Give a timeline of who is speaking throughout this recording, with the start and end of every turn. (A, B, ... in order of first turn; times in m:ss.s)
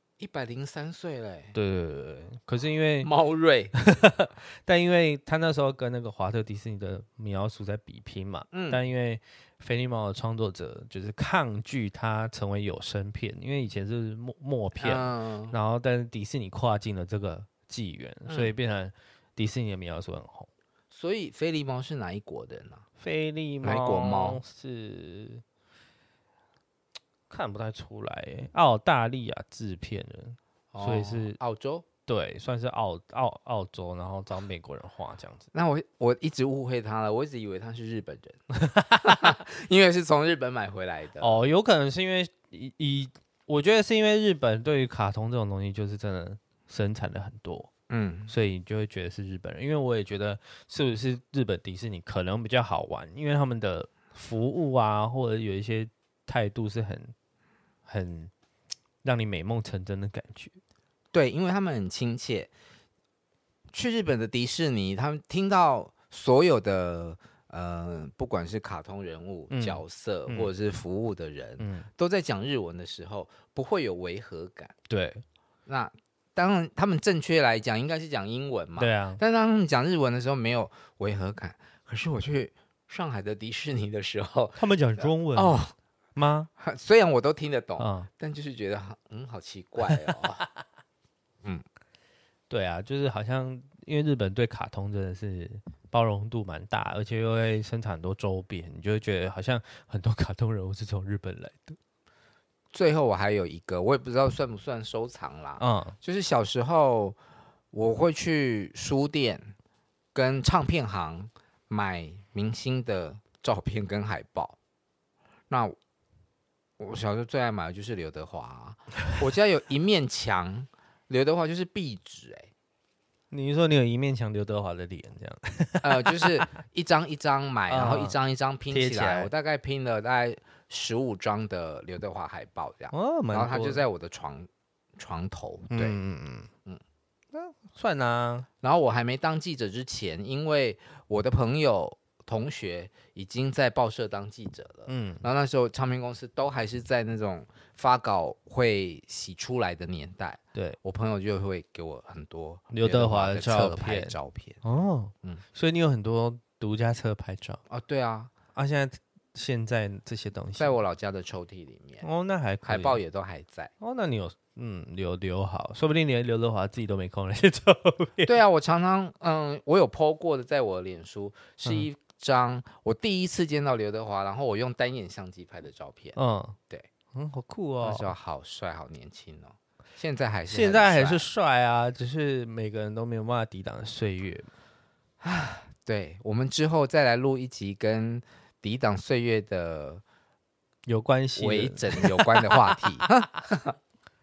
0:00.2-0:01.5 A
0:01.5-0:03.1 B
0:03.0-0:03.8 A
0:03.8-0:20.5 B
0:08.5-0:08.8 A
0:14.8-0:15.6 A
0:18.2-0:18.5 A
0:20.9-0:22.8 A
0:23.0-0:25.4 B
0:23.6-0:24.4 A
0:27.3-0:31.4 B
0:30.7-0:31.8 A
0:32.0-0:35.5 B
0:35.5-0:41.4 A
0:41.2-0:47.7 B
0:47.9-0:48.3 A
0:48.3-0:57.1 B
0:57.9-0:58.3 B
0:59.0-1:00.6 B
1:01.1-1:02.5 A
1:03.7-1:14.7 A
1:09.5-1:10.5 B
1:11.6-1:11.9 B
1:14.9-1:15.2 B
1:15.7-1:25.7 A
1:18.8-1:19.2 B
1:24.6-1:25.6 B
1:26.2-1:26.5 B
1:26.6-1:30.4 A
1:27.8-1:28.1 B
1:32.5-1:41.8 B
1:42.7-1:47.2 A
1:45.6-1:46.0 B
1:47.7-1:49.5 A
1:50.1-1:54.6 A
1:55.5-1:55.8 A
1:56.8-2:02.5 A
2:03.3-2:06.4 B
2:05.8-2:16.0 A
2:07.7-2:08.2 B
2:08.7-2:09.3 B
2:12.9-2:13.8 B
2:15.7-2:16.5 B
2:17.3-2:18.5 B
2:18.6-2:34.6 A
2:24.9-2:25.2 B
2:32.7-2:37.6 B
2:37.7-2:38.3 A
2:38.5-2:40.8 B
2:40.6-2:42.0 A
2:42.0-2:43.0 B
2:42.6-2:43.7 A
2:43.8-2:48.3 B
2:48.2-2:56.2 A
2:56.2-2:56.6 B
2:57.1-2:58.1 B
2:57.8-3:01.3 A
3:00.5-3:04.5 B
3:05.2-3:10.0 A
3:10.8-3:12.6 B
3:11.4-3:13.7 A